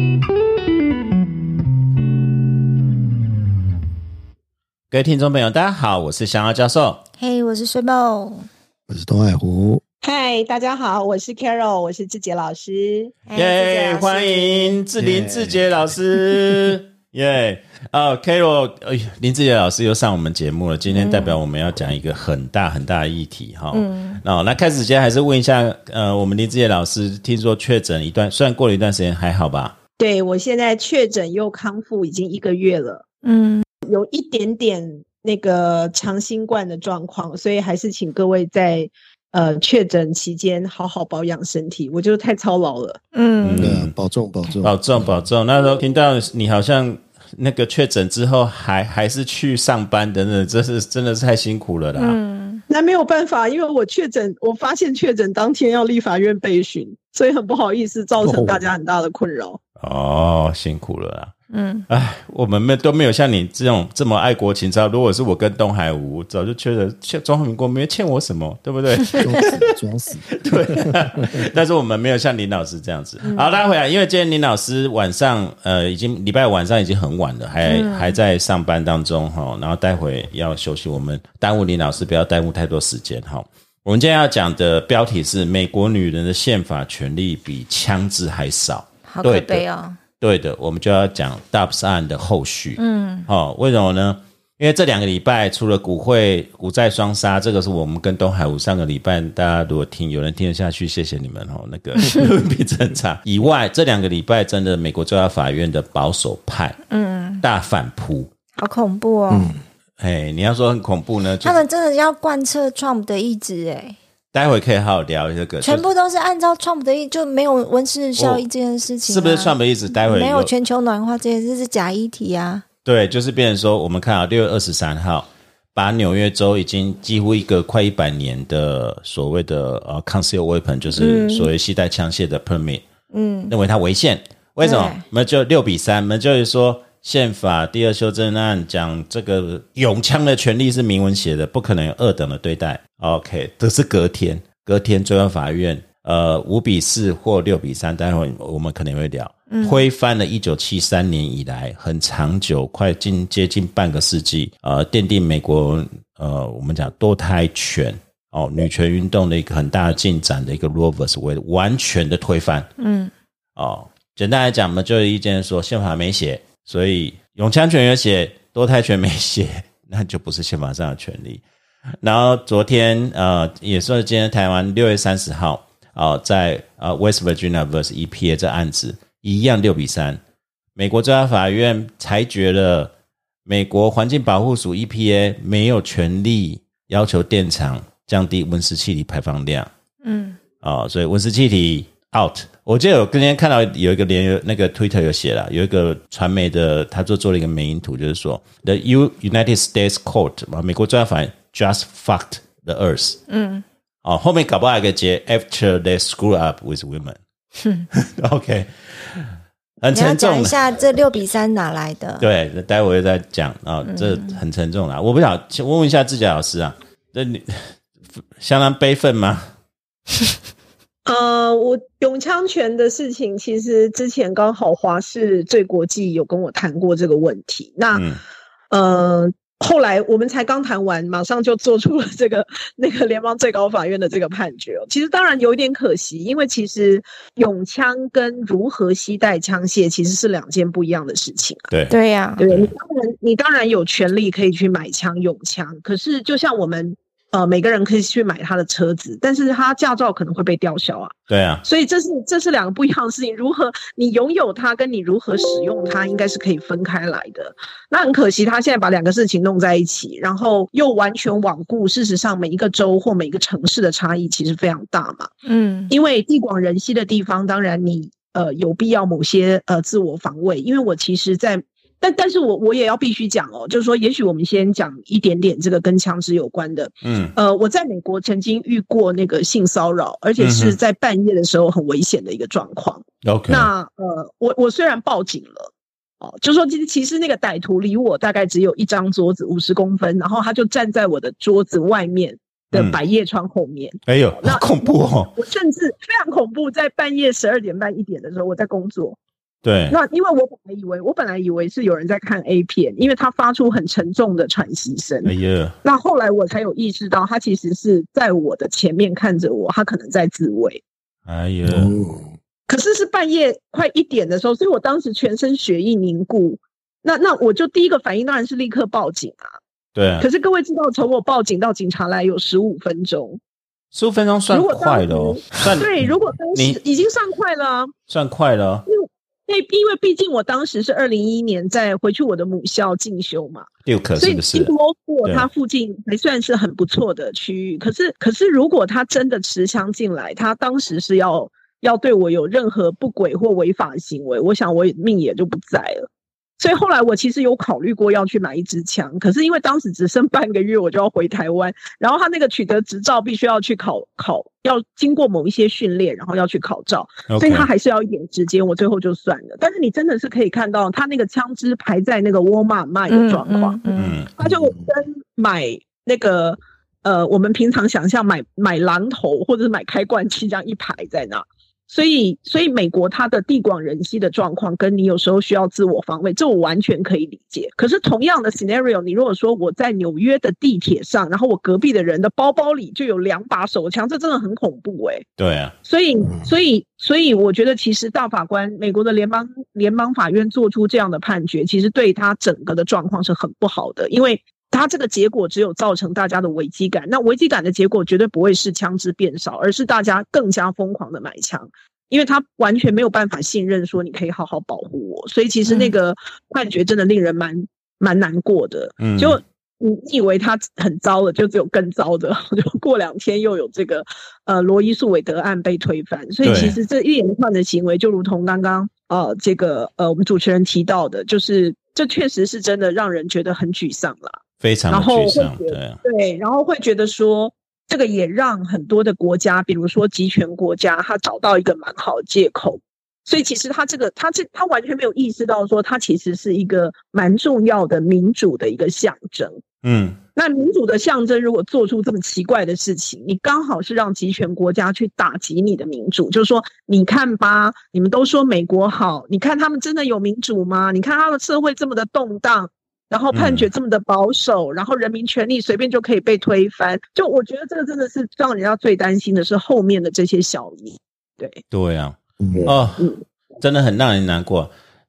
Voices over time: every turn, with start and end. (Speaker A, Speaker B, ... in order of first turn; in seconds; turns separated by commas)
Speaker A: 4.9-7.0, Speaker B: 7.2-8.5, Speaker C: 8.9-9.8, Speaker D: 10.0-13.1, Speaker B: 13.3-14.8, Speaker A: 13.3-29.8, Speaker C: 15.0-15.8, Speaker B: 20.9-21.4, Speaker B: 23.7-24.2, Speaker D: 30.0-33.0, Speaker B: 33.2-33.6, Speaker D: 33.8-43.0, Speaker B: 43.1-43.7, Speaker A: 43.4-43.9, Speaker C: 43.6-45.2, Speaker A: 44.6-52.2, Speaker B: 51.9-52.6, Speaker D: 52.7-59.6, Speaker A: 58.2-58.7, Speaker A: 59.8-61.3, Speaker B: 61.5-61.9, Speaker A: 61.9-69.6, Speaker C: 69.2-71.5, Speaker A: 70.3-89.6, Speaker B: 77.6-78.1, Speaker B: 89.1-90.0, Speaker A: 90.2-106.8, Speaker B: 92.8-93.3, Speaker B: 106.9-107.4, Speaker A: 107.4-108.3, Speaker B: 108.5-109.5, Speaker C: 109.3-109.6, Speaker A: 110.0-111.6, Speaker B: 111.4-114.0, Speaker A: 114.3-115.8, Speaker B: 115.6-122.6, Speaker A: 118.2-118.4, Speaker A: 119.0-120.5, Speaker A: 122.8-132.8, Speaker B: 130.9-131.5, Speaker B: 133.1-133.5, Speaker A: 133.5-162.7, Speaker B: 134.6-135.0, Speaker B: 149.5-149.8, Speaker B: 162.8-163.1, Speaker A: 163.6-171.4, Speaker A: 172.0-180.2, Speaker A: 180.8-182.9, Speaker A: 183.5-189.7, Speaker B: 190.0-190.4, Speaker A: 190.6-203.2, Speaker B: 203.3-203.6, Speaker A: 204.0-207.2, Speaker A: 207.9-210.8, Speaker B: 209.9-212.3, Speaker A: 212.2-217.8, Speaker B: 213.8-214.4, Speaker A: 218.4-219.5, Speaker D: 221.1-228.0, Speaker A: 227.9-228.2, Speaker D: 228.7-241.7, Speaker B: 241.9-242.4, Speaker D: 242.4-265.3, Speaker A: 251.3-251.6, Speaker B: 265.5-265.9, Speaker D: 265.9-285.7, Speaker A: 277.0-277.4, Speaker A: 280.4-280.8, Speaker A: 283.2-283.7, Speaker D: 286.2-294.7, Speaker A: 292.7-293.0, Speaker A: 294.1-295.3, Speaker D: 295.4-299.2, Speaker A: 299.6-300.0, Speaker D: 299.9-305.3, Speaker A: 305.2-305.8, Speaker D: 305.8-310.8, Speaker A: 311.2-311.9, Speaker C: 311.6-312.4, Speaker D: 312.7-319.5, Speaker A: 319.9-320.3, Speaker D: 320.2-323.4, Speaker A: 323.9-325.9, Speaker D: 324.5-327.9, Speaker A: 328.1-328.9, Speaker D: 328.9-346.1, Speaker A: 333.9-334.7, Speaker D: 346.6-363.8, Speaker A: 357.3-357.7, Speaker B: 363.1-364.2, Speaker A: 363.9-364.3, Speaker D: 364.4-385.2, Speaker C: 364.4-364.8, Speaker A: 385.4-385.7, Speaker D: 385.9-439.6, Speaker B: 405.6-405.9, Speaker A: 409.0-409.4, Speaker A: 416.4-416.8, Speaker A: 424.6-426.0, Speaker A: 439.8-440.2, Speaker D: 440.4-461.6, Speaker A: 453.3-453.7, Speaker A: 461.7-464.7, Speaker C: 462.4-462.7, Speaker D: 462.6-463.2